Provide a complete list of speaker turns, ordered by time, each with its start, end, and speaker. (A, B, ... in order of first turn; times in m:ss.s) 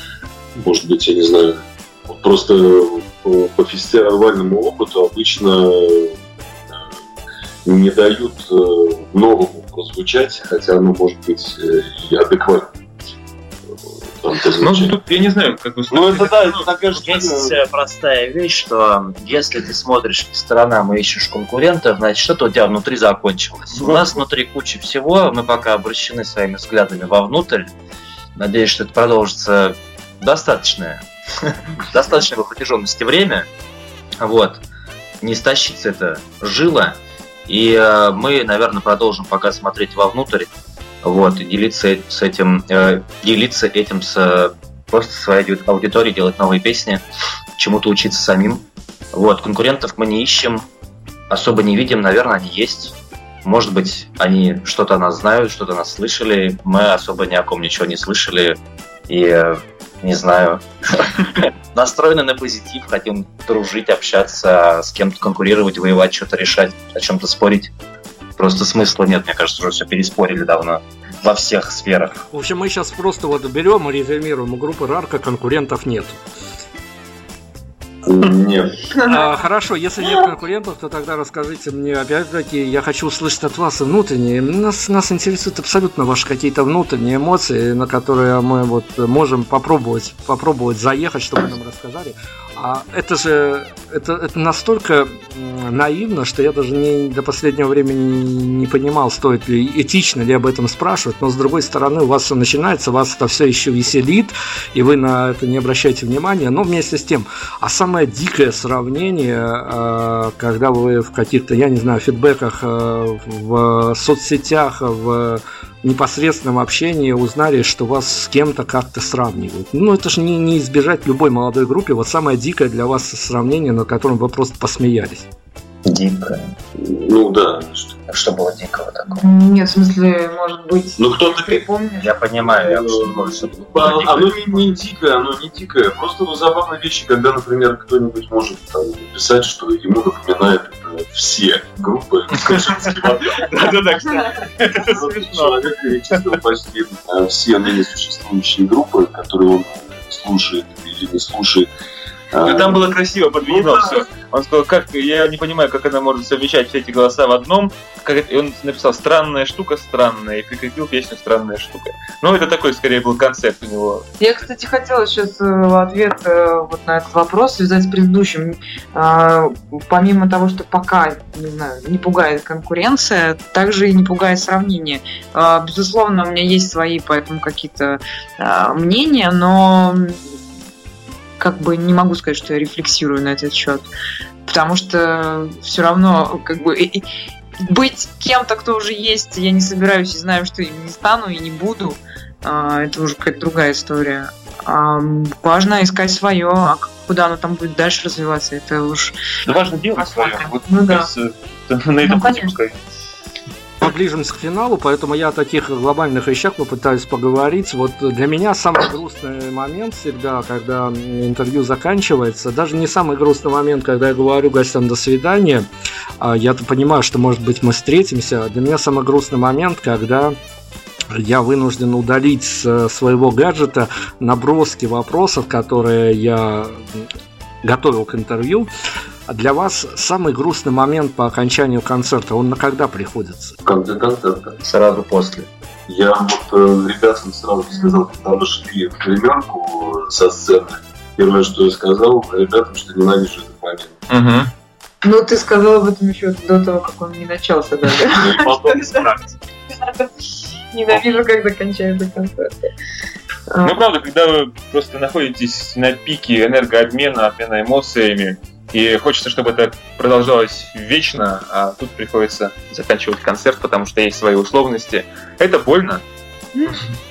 0:00.5-0:06.2 A
0:07.6-0:12.7 A
0:14.1-0:14.9 A
0:14.6-0:16.8 B
0:15.9-0:17.6 A
0:16.8-0:27.7 C
0:23.8-0:24.2 B
0:28.4-0:31.0 C
0:31.9-0:33.5 C
0:34.2-0:34.6 C
0:35.2-0:47.0 C
0:47.6-0:50.6 C
0:51.3-1:07.7 C
1:08.4-1:12.2 C
1:12.3-1:16.2 D
1:18.0-1:18.9 A
1:19.0-2:05.3 D
2:05.9-2:06.5 C
2:06.7-2:08.0 A
2:08.1-2:09.2 C
2:09.2-2:12.2 E
2:11.0-2:11.6 A
2:12.0-2:14.4 C
2:12.4-2:23.8 A
2:22.3-2:25.6 B
2:24.7-2:31.7 A
2:32.3-2:32.8 A
2:32.4-2:44.0 B
2:33.4-2:34.0 A
2:44.2-3:00.2 E
3:01.4-3:03.9 E
3:04.4-3:07.0 E
3:07.6-3:19.2 E
3:19.4-3:22.8 B
3:20.0-3:21.1 E
3:22.0-3:22.5 E
3:23.8-3:35.7 D
3:36.2-3:40.3 D
3:41.1-3:47.1 D
3:47.6-3:48.7 D
3:49.3-3:53.6 D
3:53.6-3:54.6 A
3:54.6-3:55.5 C
3:55.9-4:03.9 A
4:04.1-4:04.5 B
4:05.0-4:09.1 E
4:08.1-4:09.2 A
4:09.7-4:12.7 E
4:13.5-4:13.8 E
4:13.6-4:26.0 B
4:26.5-4:26.8 E